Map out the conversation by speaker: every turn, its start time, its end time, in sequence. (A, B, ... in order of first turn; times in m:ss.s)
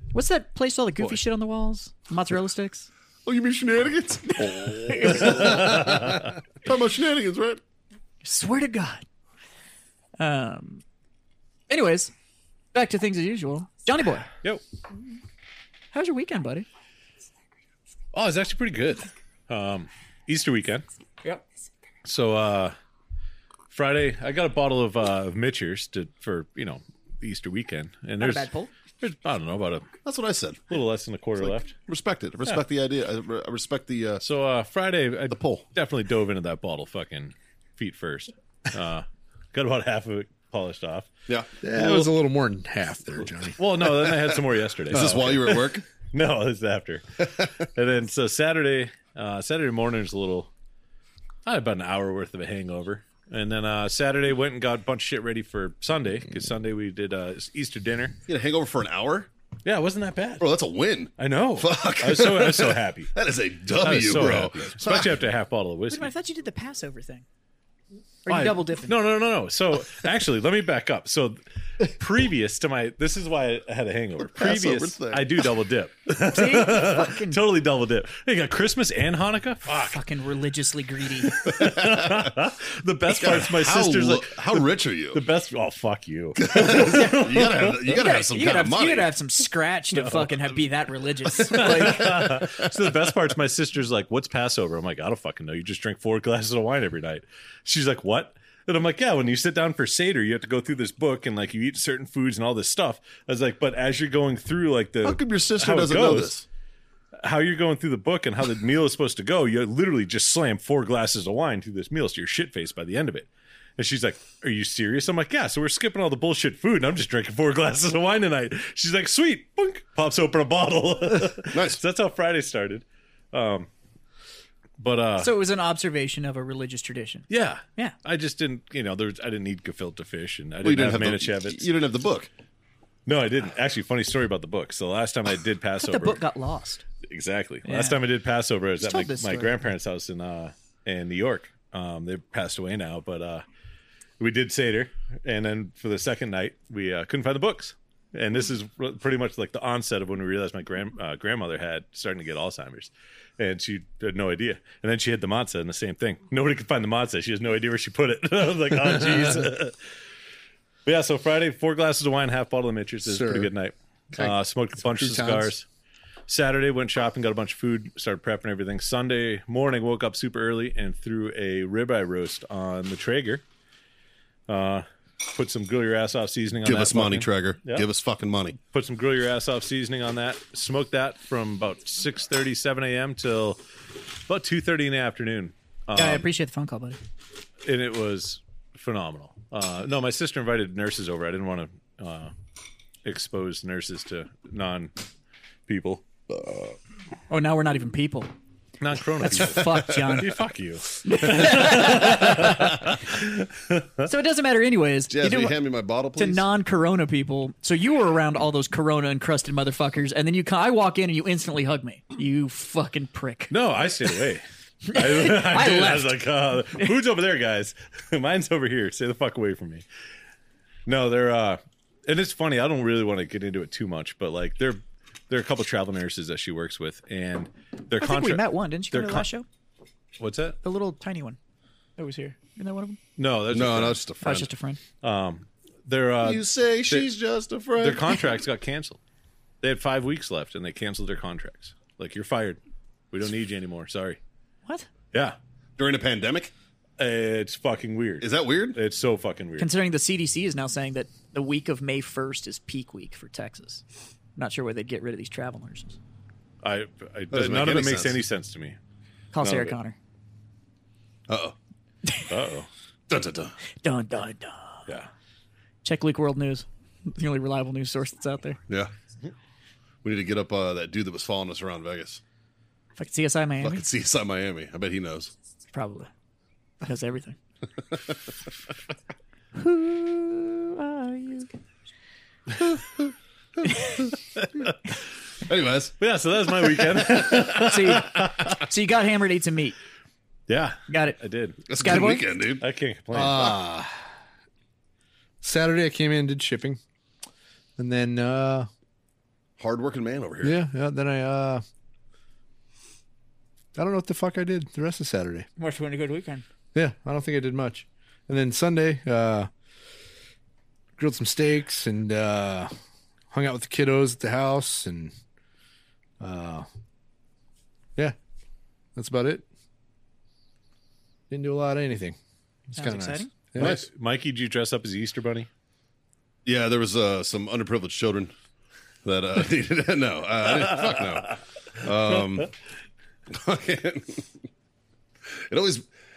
0:00.1-0:02.9 A
0:03.2-0:07.6 B
0:04.4-0:05.7 A
0:05.2-0:06.3 C
0:08.2-0:09.0 A
0:10.2-0:10.8 A
0:11.7-0:12.1 A
0:12.7-0:14.3 A
0:15.9-0:16.7 A
0:18.1-0:20.8 C
0:22.0-0:22.8 C
0:23.7-0:28.5 C
0:28.2-0:28.7 A
0:29.0-0:29.9 C
0:30.0-0:30.7 B
0:30.7-0:31.7 C
0:31.4-0:34.2 B
0:34.2-0:41.1 C
0:35.3-0:35.6 B
0:41.6-0:43.6 D
0:41.7-0:42.1 C
0:43.6-0:50.5 C
0:44.9-0:45.8 B
0:51.4-0:58.2 C
0:58.3-0:59.3 B
0:59.6-1:00.5 C
1:00.4-1:05.2 B
1:01.2-1:03.1 C
1:03.8-1:06.1 C
1:05.9-1:07.2 A
1:08.2-1:09.0 A
1:08.3-1:20.0 C
1:14.3-1:15.5 B
1:16.3-1:17.4 A
1:19.6-1:21.4 A
1:21.3-1:27.8 C
1:21.5-1:22.3 B
1:23.1-1:25.2 B
1:26.4-1:29.1 B
1:26.8-1:27.2 A
1:27.8-1:32.1 A
1:29.9-1:30.2 C
1:31.4-1:46.4 C
1:31.6-1:32.7 B
1:45.0-1:46.4 B
1:47.2-2:03.7 C
2:01.5-2:01.8 B
2:04.8-2:05.3 C
2:05.2-2:07.9 A
2:07.3-2:11.7 C
2:10.6-2:12.3 B
2:13.0-2:16.2 C
2:15.8-2:16.8 A
2:17.1-2:23.4 C
2:17.6-2:18.0 A
2:18.8-2:19.6 A
2:24.2-2:39.8 C
2:40.8-2:45.6 C
2:43.0-2:43.5 D
2:44.1-2:45.5 D
2:46.3-2:53.4 C
2:54.5-2:57.8 C
2:56.6-2:58.6 B
2:58.6-3:03.6 C
3:04.3-3:06.2 C
3:05.9-3:07.0 A
3:07.6-3:12.3 C
3:13.0-3:14.9 C
3:15.7-3:16.7 C
3:17.3-3:18.3 A
3:18.8-3:24.0 C
3:19.2-3:20.4 A
3:21.0-3:22.8 A
3:24.0-3:25.5 A
3:25.1-3:26.4 B
3:26.2-3:33.5 A
3:33.5-3:39.8 C
3:34.9-3:36.2 A
3:40.8-3:49.2 C
3:48.0-3:49.4 A
3:50.2-3:50.6 C
3:50.6-3:51.4 A
3:52.0-3:53.0 A
3:53.2-3:54.1 C
3:53.5-3:54.5 B
3:54.2-3:54.8 A
3:55.0-3:57.1 C
3:56.2-3:58.1 B
3:57.8-3:59.0 C
3:59.6-4:02.6 C
4:03.1-4:04.2 C
4:05.8-4:06.5 B
4:07.0-4:09.7 C
4:08.2-4:08.8 B
4:09.6-4:13.8 A
4:14.4-4:16.0 A
4:16.6-4:18.8 C
4:17.3-4:18.2 B
4:19.3-4:20.0 A
4:19.4-4:19.7 C
4:21.3-4:21.6 B
4:22.0-4:22.3 A
4:22.3-4:22.7 C
4:23.1-4:23.5 B
4:23.8-4:24.8 A
4:25.8-4:28.6 A
4:30.0-4:32.2 B
4:33.0-4:33.8 A
4:33.6-4:35.3 B
4:35.7-4:36.1 A
4:36.8-4:37.4 A
4:39.6-4:41.5 A
4:43.6-4:44.0 A
4:45.4-4:46.0 B
4:46.0-4:48.6 C
4:46.6-4:47.0 B
4:47.6-4:49.8 A
4:50.5-4:53.6 C
4:50.9-4:51.2 A
4:51.7-4:52.6 B
4:51.8-4:52.2 A
4:53.1-4:54.0 D
4:53.2-4:53.5 B
4:55.4-4:56.8 D
4:57.8-4:58.7 D
4:59.6-5:00.6 B
5:00.4-5:01.6 D
5:03.7-5:05.5 D
5:05.6-5:06.4 A
5:06.7-5:09.5 D
5:11.0-5:12.7 D
5:13.3-5:15.1 D
5:16.2-5:16.7 D
5:18.9-5:19.4 D
5:21.3-5:22.2 D
5:22.7-5:23.8 D
5:22.7-5:23.3 A
5:23.6-5:25.5 C
5:23.6-5:23.8 B
5:26.4-5:28.3 B
5:29.0-5:32.5 B
5:33.3-5:34.3 B
5:35.5-5:35.9 B